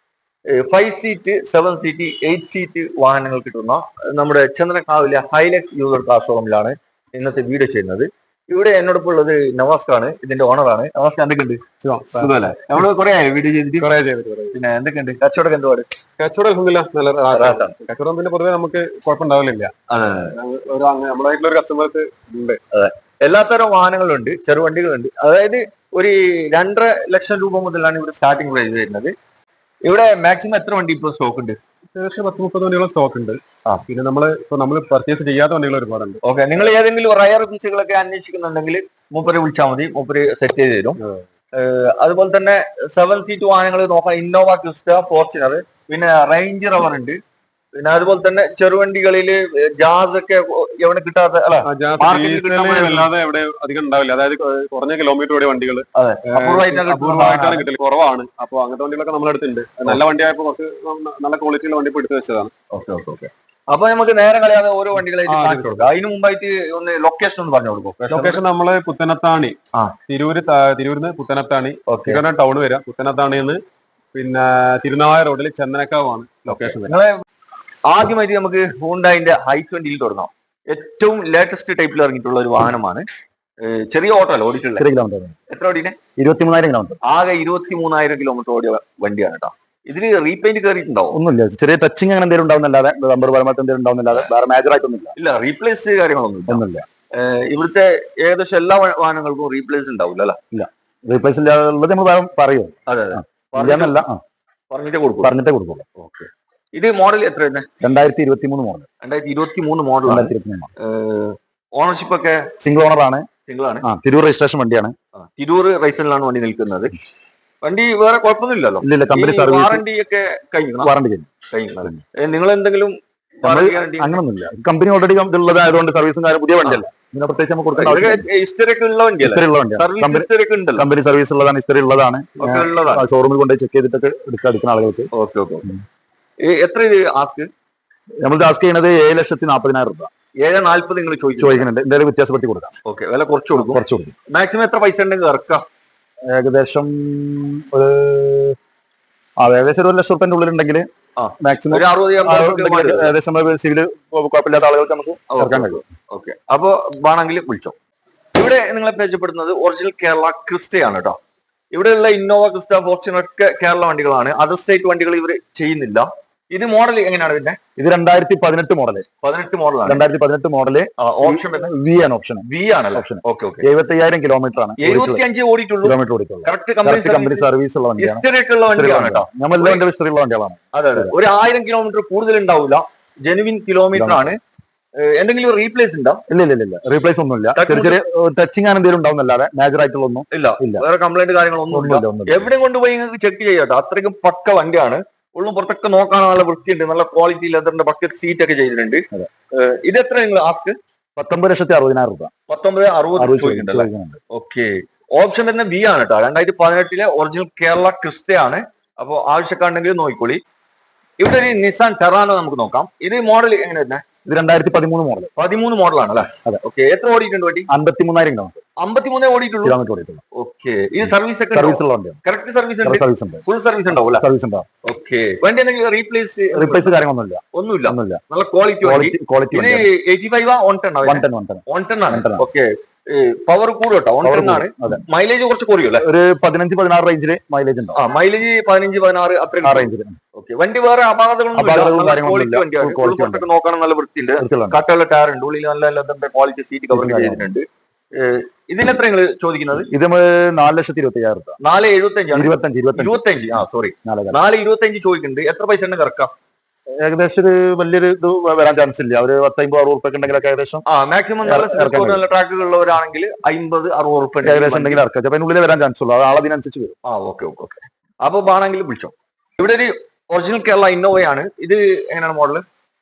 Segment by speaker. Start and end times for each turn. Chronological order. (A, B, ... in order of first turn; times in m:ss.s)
0:00.5-0:13.9 A
0:11.8-0:12.7 B
0:13.8-0:14.6 B
0:14.5-0:15.9 A
0:16.2-0:19.7 B
0:17.3-0:17.8 A
0:19.9-0:20.3 A
0:20.3-0:22.6 B
0:22.7-0:29.1 A
0:29.8-0:31.6 A
0:31.9-0:36.2 B
0:36.2-0:41.0 A
0:41.5-0:47.2 A
0:47.8-0:53.1 A
0:51.6-1:02.5 B
0:56.0-0:57.6 A
1:02.7-1:08.4 A
1:05.2-1:05.9 B
1:08.0-1:09.6 B
1:10.1-1:13.6 B
1:11.9-1:12.2 A
1:14.1-1:16.9 B
1:16.5-1:17.2 A
1:17.8-1:23.0 A
1:23.6-1:24.8 A
1:24.8-1:25.4 C
1:25.5-1:26.0 A
1:26.2-1:27.0 C
1:27.0-1:31.2 A
1:31.1-1:35.1 C
1:35.2-1:40.4 A
1:36.5-1:36.8 C
1:40.5-1:44.2 C
1:42.9-1:44.0 A
1:44.7-1:45.3 A
1:45.2-1:45.9 C
1:46.0-1:47.7 A
1:47.8-1:48.9 C
1:49.0-1:52.5 A
1:50.0-1:50.7 C
1:52.6-1:53.3 C
1:53.5-1:53.8 A
1:53.8-1:54.9 C
1:55.2-1:56.9 A
1:57.6-2:00.9 A
1:58.8-1:59.8 C
2:00.8-2:01.3 C
2:01.5-2:04.2 A
2:03.4-2:08.2 C
2:07.8-2:10.9 A
2:09.2-2:15.1 C
2:12.4-2:13.0 A
2:15.1-2:15.7 A
2:16.4-2:17.5 A
2:18.2-2:20.1 C
2:20.4-2:21.7 A
2:21.4-2:22.7 C
2:22.8-2:25.6 A
2:23.6-2:24.1 C
2:26.3-2:28.6 C
2:29.4-2:30.8 C
2:31.2-2:33.1 A
2:31.4-2:35.8 C
2:35.3-2:37.7 A
2:38.4-2:41.2 A
2:41.7-2:47.6 A
2:47.8-2:49.0 C
2:49.2-2:50.1 A
2:49.8-2:55.2 C
2:51.0-2:51.7 A
2:52.4-2:53.6 A
2:54.8-2:59.8 A
2:55.8-3:01.1 C
3:00.7-3:04.4 A
3:03.9-3:04.3 C
3:05.0-3:06.2 A
3:06.3-3:10.8 C
3:07.6-3:08.0 A
3:10.3-3:20.8 A
3:11.7-3:12.4 C
3:21.2-3:22.3 C
3:22.5-3:30.4 A
3:23.2-3:24.2 C
3:31.2-3:34.0 A
3:34.3-3:35.3 C
3:35.4-3:37.7 A
3:37.7-3:38.6 C
3:38.8-3:39.8 A
3:39.6-3:40.2 C
3:40.4-3:44.2 A
3:41.5-3:42.2 C
3:42.8-3:43.4 C
3:44.0-3:44.7 C
3:44.8-3:46.9 A
3:46.5-3:48.2 C
3:47.5-3:56.1 A
3:48.8-3:49.9 C
3:51.0-3:52.4 C
3:54.2-3:55.0 C
3:56.0-3:58.0 C
3:58.0-4:09.9 A
3:59.6-4:00.2 C
4:01.5-4:03.4 C
4:04.4-4:04.8 C
4:06.9-4:07.5 C
4:09.9-4:11.6 C
4:11.6-4:16.3 A
4:12.3-4:13.2 C
4:14.0-4:14.4 C
4:17.0-4:20.8 C
4:20.9-4:25.0 A
4:21.4-4:22.2 C
4:24.4-4:26.9 C
4:27.0-4:32.6 A